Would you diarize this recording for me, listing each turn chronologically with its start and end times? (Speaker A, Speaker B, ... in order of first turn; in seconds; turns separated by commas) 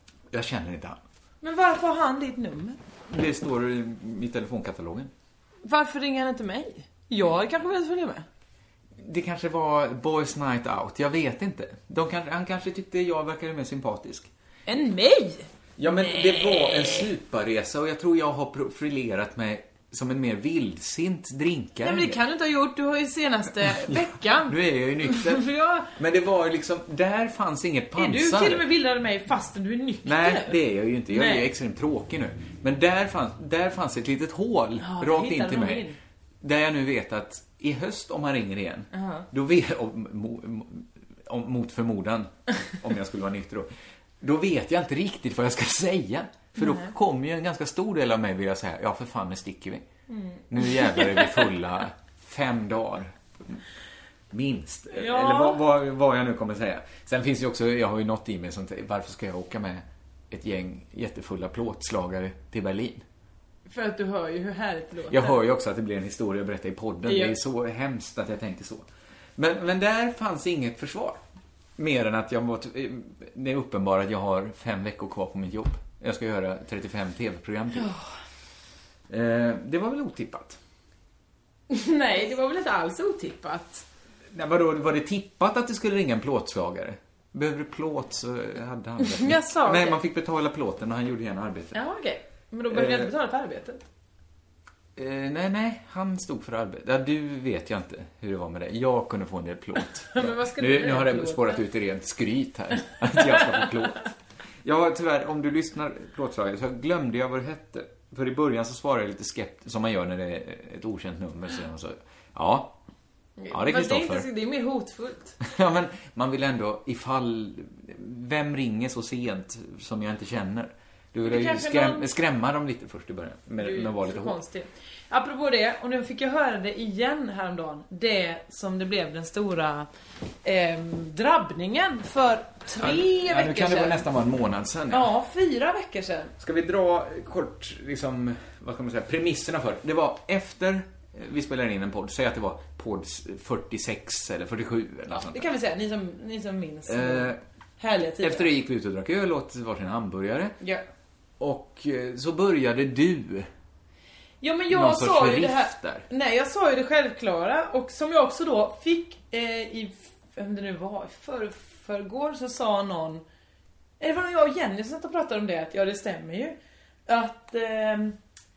Speaker A: 0.3-1.0, Speaker B: 1.4-2.8, Speaker A: 3.1-5.1, Speaker B: 5.6-8.2, Speaker A: 9.0-14.3, Speaker B: 14.7-17.1, Speaker A: 15.8-22.2, Speaker B: 21.8-25.9, Speaker A: 23.6-28.6, Speaker B: 28.0-30.6, Speaker A: 30.1-35.9, Speaker B: 31.1-31.5, Speaker B: 34.8-36.0, Speaker A: 36.4-43.7, Speaker B: 38.9-39.3, Speaker A: 44.2-49.9, Speaker B: 46.6-46.9, Speaker B: 50.1-51.5, Speaker A: 50.5-53.6, Speaker A: 54.3-63.0, Speaker B: 54.9-55.6, Speaker B: 63.7-65.4, Speaker A: 65.1-68.9, Speaker B: 67.1-67.3, Speaker A: 69.4-71.2, Speaker A: 71.8-77.9, Speaker B: 77.8-78.1, Speaker A: 79.1-80.6, Speaker B: 81.7-83.8, Speaker A: 84.3-91.8, Speaker B: 89.0-90.0, Speaker B: 91.7-93.8, Speaker A: 92.7-93.1, Speaker A: 95.0-104.1, Speaker B: 100.1-101.6, Speaker A: 104.6-112.8, Speaker B: 113.4-115.4, Speaker A: 113.5-114.3, Speaker A: 115.4-124.4, Speaker B: 121.2-122.1, Speaker B: 123.6-129.9, Speaker B: 130.4-134.0, Speaker A: 132.8-135.1, Speaker B: 134.9-136.3, Speaker A: 136.4-145.5, Speaker B: 145.1-148.5, Speaker A: 146.9-147.4, Speaker A: 148.2-150.6, Speaker A: 151.4-153.5, Speaker B: 154.4-163.2, Speaker A: 154.7-156.1, Speaker B: 164.0-166.6, Speaker B: 167.1-168.2